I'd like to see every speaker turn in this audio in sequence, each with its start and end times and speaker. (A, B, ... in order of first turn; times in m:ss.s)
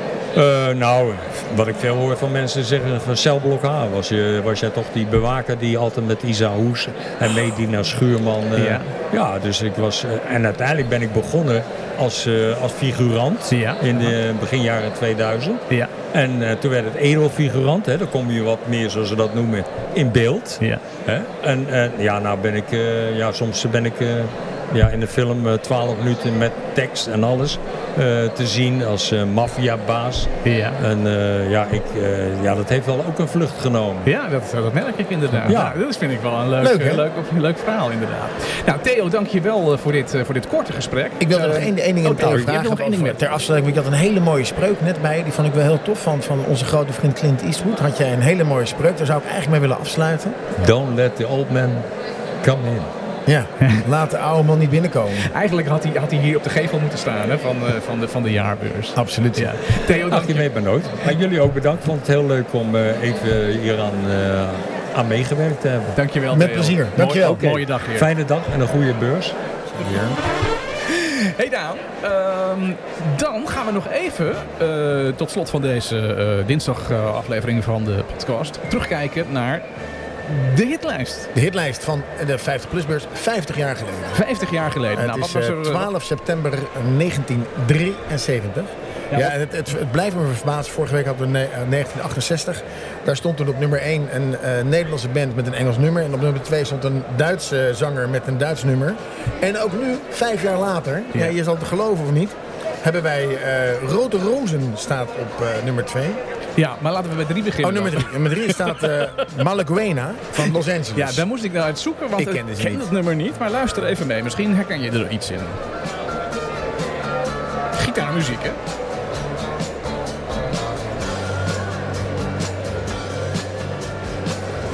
0:00.3-0:34.1 A
0:08.6-0:08.9 B
0:13.5-0:14.1 B
0:30.4-0:30.8 B
0:34.0-0:43.2 B
0:35.4-0:35.8 A
0:36.6-0:37.0 C
0:41.2-0:50.5 C
0:50.6-0:51.8 A
0:52.4-0:52.9 A
0:53.3-0:55.3 C
0:55.2-1:00.5 B
0:58.9-0:59.5 C
1:00.1-1:06.0 A
1:05.9-1:08.1 B
1:06.3-1:07.4 C
1:07.2-1:10.2 A
1:10.8-1:19.6 B
1:20.2-1:21.3 B
1:21.3-1:24.2 C
1:24.1-1:25.9 B
1:24.9-1:46.2 C
1:46.6-1:49.2 B
1:47.6-1:51.2 C
1:50.9-1:55.6 B
1:52.2-1:52.9 C
1:57.8-1:58.6 B